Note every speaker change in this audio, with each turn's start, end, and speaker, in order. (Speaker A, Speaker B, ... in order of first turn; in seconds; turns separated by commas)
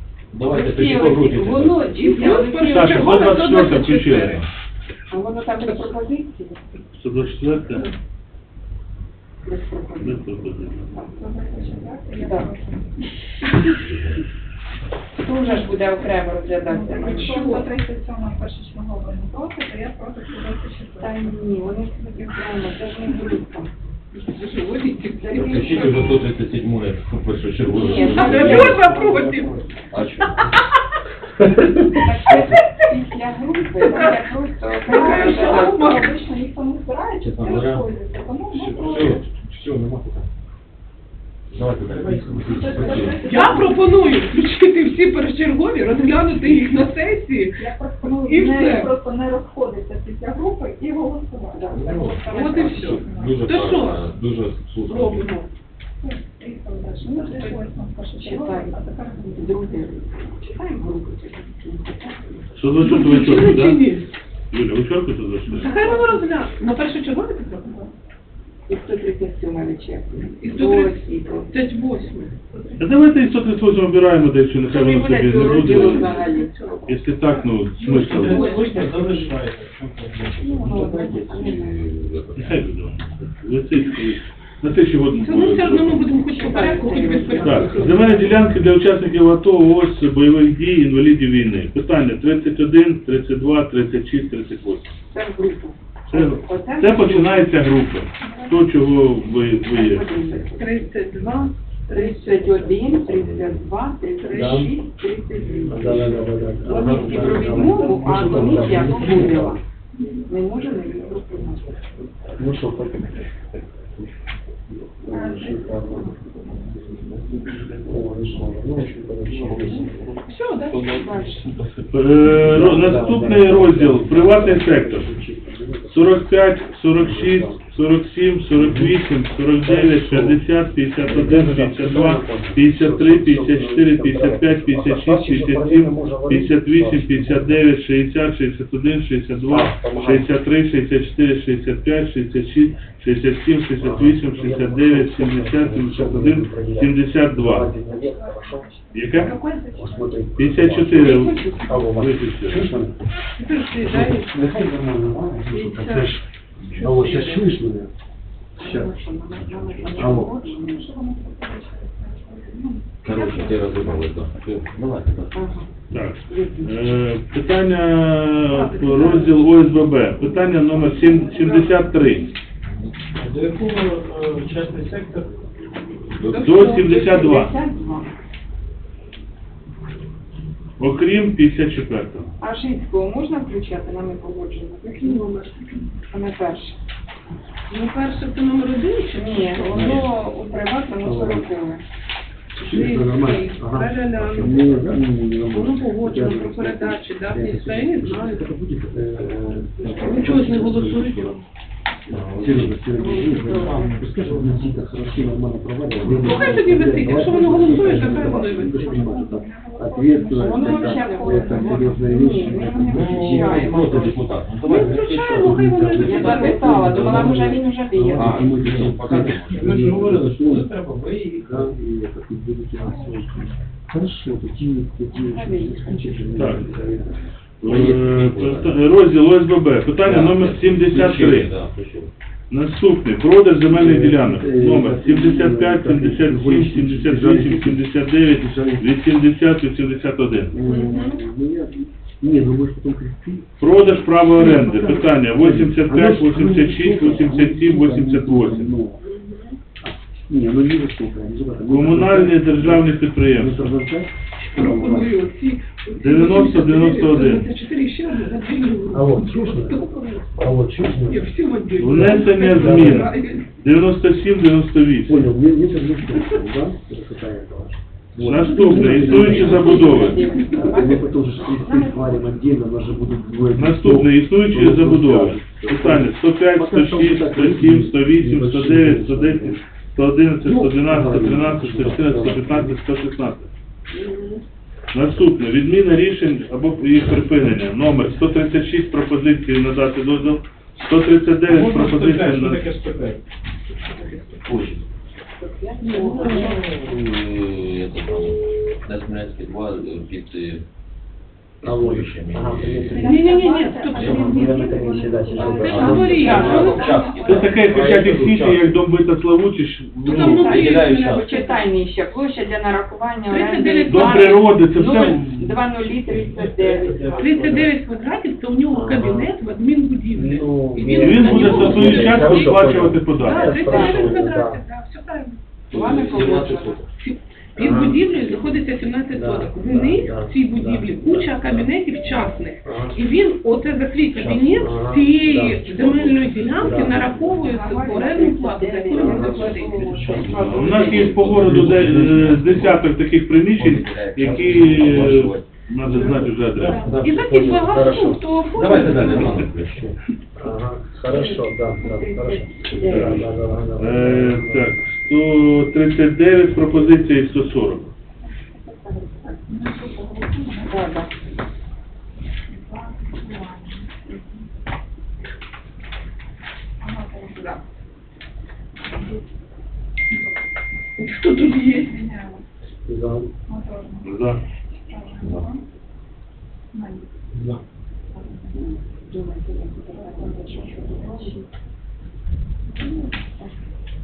Speaker A: 0.3-2.2, Speaker B: 0.4-3.4, Speaker C: 1.9-4.4, Speaker D: 2.6-4.4, Speaker B: 5.1-6.6, Speaker D: 6.9-7.8, Speaker B: 9.4-10.2, Speaker D: 10.0-10.9, Speaker E: 11.1-13.0, Speaker B: 12.1-12.5, Speaker A: 13.7-14.2, Speaker B: 15.2-17.4, Speaker E: 16.7-21.4, Speaker C: 17.0-17.7, Speaker B: 21.0-23.7, Speaker C: 24.1-26.2, Speaker B: 25.2-25.9, Speaker A: 25.3-28.9, Speaker B: 27.7-29.3, Speaker C: 27.9-29.6, Speaker F: 28.0-29.8, Speaker A: 29.9-30.5, Speaker B: 31.4-36.1, Speaker C: 33.8-34.2, Speaker C: 34.8-36.2, Speaker E: 35.1-39.0, Speaker A: 37.2-40.3, Speaker F: 38.8-39.2, Speaker A: 41.5-43.3, Speaker F: 41.9-43.0, Speaker E: 42.5-44.2, Speaker B: 42.8-43.6, Speaker C: 43.2-48.9, Speaker E: 47.6-53.6, Speaker B: 51.5-52.9, Speaker A: 51.7-52.3, Speaker C: 52.1-54.1, Speaker A: 52.9-55.3, Speaker C: 54.9-55.5, Speaker E: 56.0-59.8, Speaker C: 57.1-57.7, Speaker B: 58.1-62.5, Speaker D: 62.5-63.8, Speaker C: 62.8-64.1, Speaker D: 64.5-65.7, Speaker B: 65.5-66.1, Speaker C: 65.5-67.9, Speaker B: 68.7-71.5, Speaker C: 70.4-72.4, Speaker D: 72.8-76.2, Speaker B: 74.7-76.9, Speaker C: 75.3-76.9, Speaker D: 76.9-78.5, Speaker C: 77.8-78.8, Speaker F: 77.8-81.1, Speaker B: 78.2-79.3, Speaker B: 80.4-81.8, Speaker A: 81.0-82.7, Speaker D: 82.3-94.9, Speaker C: 85.1-88.3, Speaker B: 86.2-88.3, Speaker F: 87.3-88.2, Speaker B: 95.1-97.5, Speaker D: 96.1-100.1, Speaker E: 98.2-98.6, Speaker B: 99.7-100.8, Speaker C: 100.5-102.8, Speaker B: 101.9-105.9, Speaker A: 103.0-103.8, Speaker C: 104.2-104.7, Speaker G: 104.3-104.7, Speaker F: 105.3-105.7, Speaker G: 105.7-109.6, Speaker A: 105.8-106.2, Speaker B: 106.6-109.6, Speaker F: 106.7-109.2, Speaker A: 106.9-107.2, Speaker B: 110.3-111.7, Speaker G: 112.4-113.2, Speaker G: 115.0-116.5, Speaker E: 115.1-117.0, Speaker G: 117.8-120.1, Speaker A: 118.8-121.5, Speaker C: 120.2-121.3, Speaker B: 120.9-121.4, Speaker D: 121.9-125.1, Speaker G: 122.2-126.3, Speaker D: 125.9-147.7, Speaker G: 126.9-127.6, Speaker G: 128.5-129.0, Speaker G: 129.6-130.4, Speaker G: 131.0-137.7, Speaker G: 139.5-140.3, Speaker G: 143.8-153.0, Speaker E: 147.8-150.1, Speaker D: 148.9-149.3, Speaker C: 149.2-149.6, Speaker D: 150.4-152.7, Speaker C: 151.0-151.6, Speaker B: 151.0-151.7, Speaker C: 153.4-154.3, Speaker G: 153.8-156.2, Speaker C: 155.5-157.6, Speaker B: 155.5-156.0, Speaker G: 156.8-157.9, Speaker G: 158.6-158.9, Speaker B: 158.6-160.8, Speaker A: 159.3-160.1, Speaker G: 159.9-160.4, Speaker E: 160.2-163.7, Speaker A: 163.0-165.5, Speaker B: 163.1-164.0, Speaker B: 165.3-165.7, Speaker D: 165.9-172.3, Speaker B: 166.3-167.0, Speaker C: 168.5-169.4, Speaker E: 170.8-171.5, Speaker C: 171.2-171.8, Speaker F: 173.2-175.3, Speaker A: 176.2-176.6, Speaker C: 176.3-177.1, Speaker D: 176.4-177.5, Speaker B: 176.8-178.1, Speaker D: 180.8-182.3, Speaker B: 182.4-185.2, Speaker C: 184.9-185.8, Speaker B: 186.1-186.8, Speaker C: 187.7-190.1, Speaker B: 189.1-191.8, Speaker G: 189.7-190.1, Speaker G: 191.0-191.5, Speaker C: 192.6-198.5, Speaker G: 192.6-201.3, Speaker A: 199.1-199.5, Speaker F: 199.8-201.0, Speaker C: 200.0-201.4, Speaker A: 202.1-202.9, Speaker G: 202.3-214.0, Speaker B: 202.9-204.0, Speaker F: 203.2-204.8, Speaker A: 205.9-206.3, Speaker F: 206.2-206.5, Speaker C: 206.2-209.0, Speaker F: 207.1-208.9, Speaker E: 208.8-212.7, Speaker B: 210.3-214.2, Speaker C: 211.5-211.8, Speaker A: 212.8-216.2, Speaker C: 214.6-217.3, Speaker G: 215.4-220.7, Speaker B: 216.0-218.5, Speaker F: 216.2-217.5, Speaker A: 216.9-217.3, Speaker A: 218.1-219.8, Speaker F: 219.5-221.7, Speaker G: 221.3-228.3, Speaker B: 225.1-226.4, Speaker D: 226.3-226.9, Speaker D: 227.6-231.5, Speaker A: 227.7-228.8, Speaker A: 230.0-232.1, Speaker D: 232.5-240.6, Speaker G: 233.7-238.8, Speaker G: 240.5-243.7, Speaker C: 240.6-241.2, Speaker D: 243.6-248.7, Speaker G: 244.3-249.0, Speaker C: 249.0-249.6, Speaker G: 249.8-255.2, Speaker D: 251.7-253.8, Speaker C: 254.5-260.3, Speaker D: 256.0-257.5, Speaker G: 258.9-263.1, Speaker C: 261.1-263.5, Speaker D: 261.8-265.3, Speaker G: 265.0-279.6, Speaker D: 268.2-270.2, Speaker C: 268.5-270.7, Speaker F: 268.7-269.2, Speaker B: 269.1-272.3, Speaker D: 273.5-283.5, Speaker G: 280.4-282.8, Speaker C: 283.9-284.4, Speaker D: 284.9-292.6, Speaker F: 291.4-293.2, Speaker F: 293.9-294.3, Speaker A: 294.4-294.8, Speaker B: 295.4-296.6, Speaker C: 295.8-296.6, Speaker F: 296.1-296.7, Speaker A: 296.8-300.6, Speaker A: 301.6-303.2, Speaker G: 301.6-303.2, Speaker C: 303.0-304.8, Speaker E: 303.0-307.1, Speaker G: 303.9-306.8, Speaker A: 304.0-304.4, Speaker B: 305.2-307.6, Speaker C: 305.6-307.1, Speaker A: 305.6-308.1, Speaker F: 306.1-306.5, Speaker D: 307.2-310.6, Speaker G: 307.5-308.8, Speaker C: 310.0-311.7, Speaker B: 310.0-317.5, Speaker A: 310.5-311.3, Speaker C: 313.3-314.4, Speaker D: 313.9-315.6, Speaker F: 316.0-317.7, Speaker C: 317.1-325.4, Speaker G: 318.7-319.3, Speaker G: 320.1-324.6, Speaker D: 320.9-323.9, Speaker B: 321.2-322.1, Speaker B: 323.6-324.2, Speaker A: 325.7-326.8, Speaker B: 325.7-326.8, Speaker C: 327.0-340.2, Speaker G: 327.6-328.1, Speaker G: 329.1-331.7, Speaker G: 332.6-333.0, Speaker G: 334.5-335.7, Speaker A: 335.7-336.7, Speaker G: 336.5-337.4, Speaker B: 337.4-341.1, Speaker G: 338.9-342.6, Speaker A: 339.7-342.9, Speaker D: 340.5-346.8, Speaker A: 343.4-345.5, Speaker G: 344.3-344.8, Speaker F: 345.8-346.9, Speaker G: 345.9-348.2, Speaker C: 346.7-349.5, Speaker A: 346.9-347.2, Speaker A: 348.5-349.9, Speaker G: 350.3-354.7, Speaker B: 351.1-353.3, Speaker D: 352.9-357.9, Speaker B: 358.6-359.4, Speaker E: 359.5-360.9, Speaker B: 360.6-361.1, Speaker E: 362.5-363.9, Speaker B: 364.1-364.4, Speaker E: 366.8-367.6, Speaker E: 368.9-369.2, Speaker C: 371.0-371.9, Speaker E: 371.8-372.4, Speaker G: 372.9-373.3, Speaker E: 373.5-374.1, Speaker D: 374.0-374.4, Speaker E: 374.7-375.6, Speaker A: 375.2-375.5, Speaker E: 376.7-377.0, Speaker F: 377.3-377.6, Speaker E: 378.1-378.5, Speaker B: 378.6-381.5, Speaker E: 379.9-381.4, Speaker B: 382.9-383.5